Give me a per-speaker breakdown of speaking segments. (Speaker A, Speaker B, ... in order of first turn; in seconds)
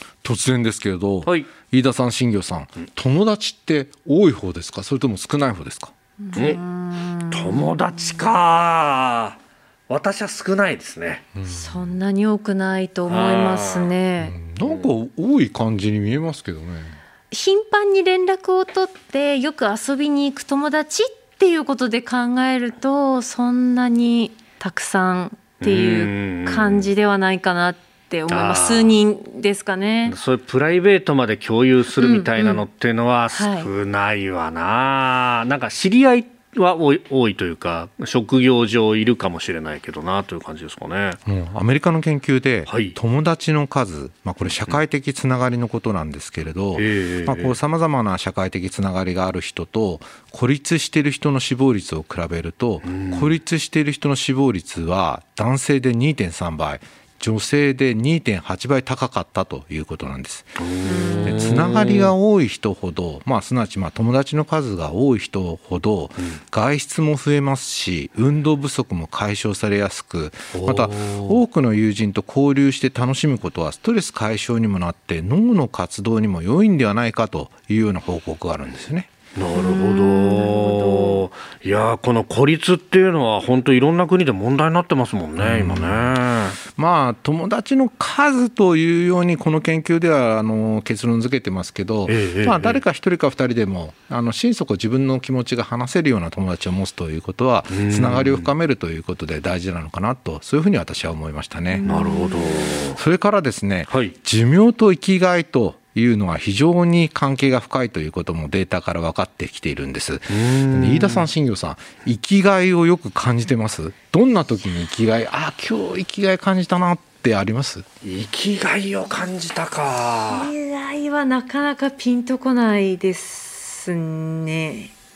Speaker A: 0.2-5.9, 11.3-12.0, 14.2-17.0, 41.3-60.6, 61.2-79.1, 85.4-86.2, 86.8-101.9, 102.9-117.8
Speaker B: 6.2-8.2, 11.4-14.3, 17.3-30.2, 32.0-32.6, 33.3-33.7, 60.9-61.5, 79.5-81.2, 101.7-102.4, 120.3-124.9
Speaker C: 6.3-6.6, 7.3-9.4, 9.9-11.2, 13.1-13.9, 14.6-14.9, 25.6-26.9, 28.3-29.0, 30.1-41.2, 42.7-43.0, 44.5-44.8, 46.8-47.6, 52.8-53.4, 60.6-62.1, 70.5-71.4, 79.3-86.6, 92.1-92.8, 97.7-98.5, 101.8-103.0, 103.9-104.1, 110.3-111.3, 118.0-120.5